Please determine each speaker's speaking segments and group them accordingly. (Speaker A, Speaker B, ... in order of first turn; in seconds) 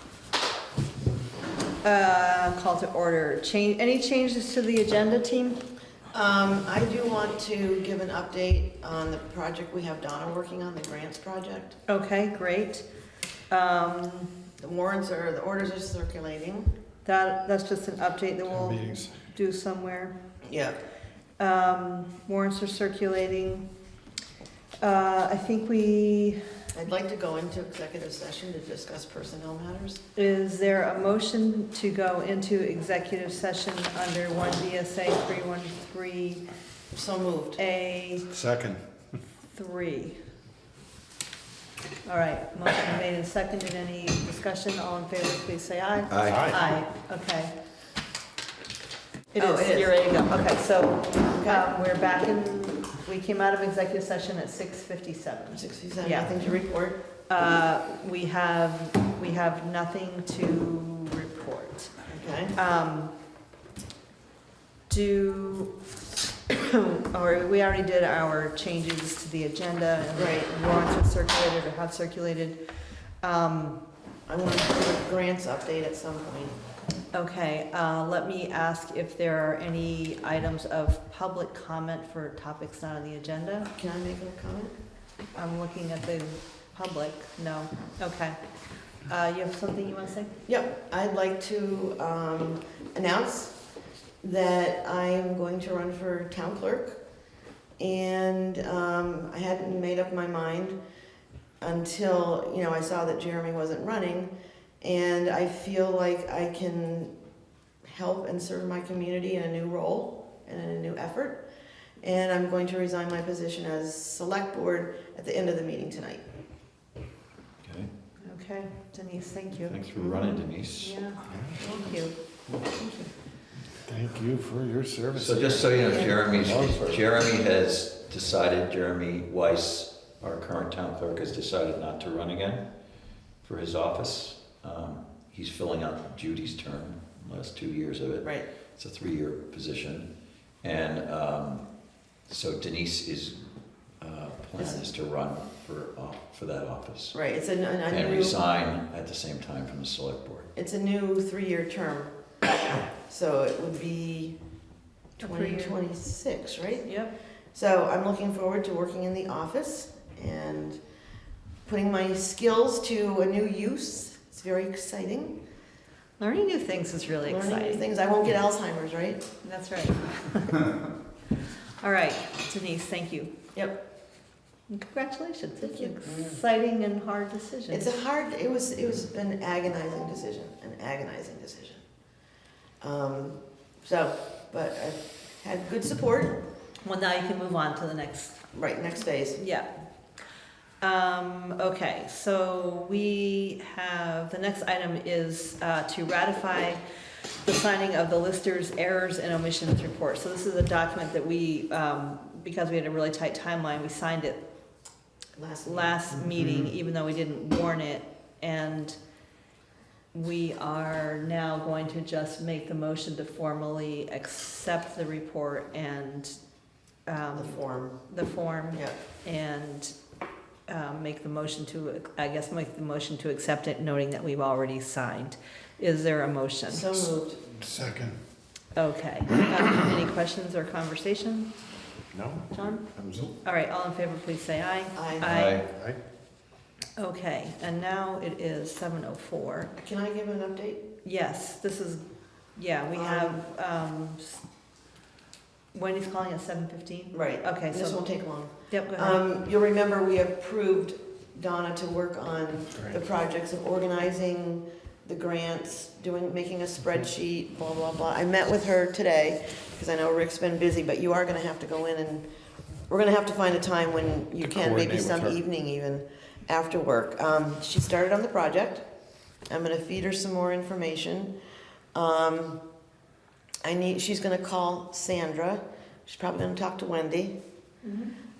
Speaker A: 1.8-5.6, 11.9-12.9, 13.5-14.3, 17.1-20.1, 21.4-23.7, 24.8-26.4, 30.2-36.4, 37.6-38.2, 39.5-40.2, 42.1-47.5, 49.4-56.4, 57.3-61.9, 62.6-63.1, 64.9-65.7, 66.5-72.6, 73.2-73.8, 77.1-83.7, 85.3-88.4, 89.1-90.3, 118.2-120.2, 120.8-122.2, 155.2-155.8, 156.8-157.1, 166.2-167.8, 169.4-170.7, 171.8-173.3, 174.7-177.9, 186.8-188.4, 189.4-189.7, 190.8-196.8, 197.4-204.4, 205.7-209.0, 210.1-216.4, 217.1-219.9, 220.7-227.0, 228.8-231.5, 232.5-232.8, 233.4-235.6, 237.0-239.7, 241.0-242.0, 242.6-244.4, 245.7-248.1, 248.7-249.2, 277.8-278.1
Speaker B: 6.1-11.8, 14.6-16.7, 20.4-20.8, 26.7-30.0, 36.9-37.6, 49.3-50.0, 51.3-51.7, 55.5-57.0, 62.1-62.5, 70.2-70.5, 74.3-76.6, 83.8-84.7, 90.5-93.6, 94.2-97.0, 97.8-100.8, 101.6-107.1, 107.8-111.5, 112.0-116.2, 121.6-122.0, 144.6-144.9, 147.1-148.4, 150.6-152.1, 153.1-154.4, 155.2-156.9, 157.5-160.8, 161.7-165.4, 167.3-169.2, 173.5-173.8, 175.6-176.4, 177.7-181.8, 182.8-186.4, 188.5-189.4, 205.4-206.0, 217.3-218.0, 226.7-227.4, 234.9-235.3, 239.8-240.8, 242.9-243.4, 247.1-262.2, 262.9-268.8, 269.5-271.3, 271.9-272.6, 273.6-277.4
Speaker C: 18.5-19.2, 38.3-38.8, 46.2-46.6, 121.3-121.6, 123.8-127.1, 227.6-228.2, 232.1-233.3, 235.7-236.0, 264.4-265.4
Speaker D: 46.1-46.6, 117.6-117.9, 119.7-121.0, 125.2-132.7, 133.4-140.1, 140.6-141.7, 142.3-143.4, 144.0-147.2, 147.9-150.5, 235.2-235.7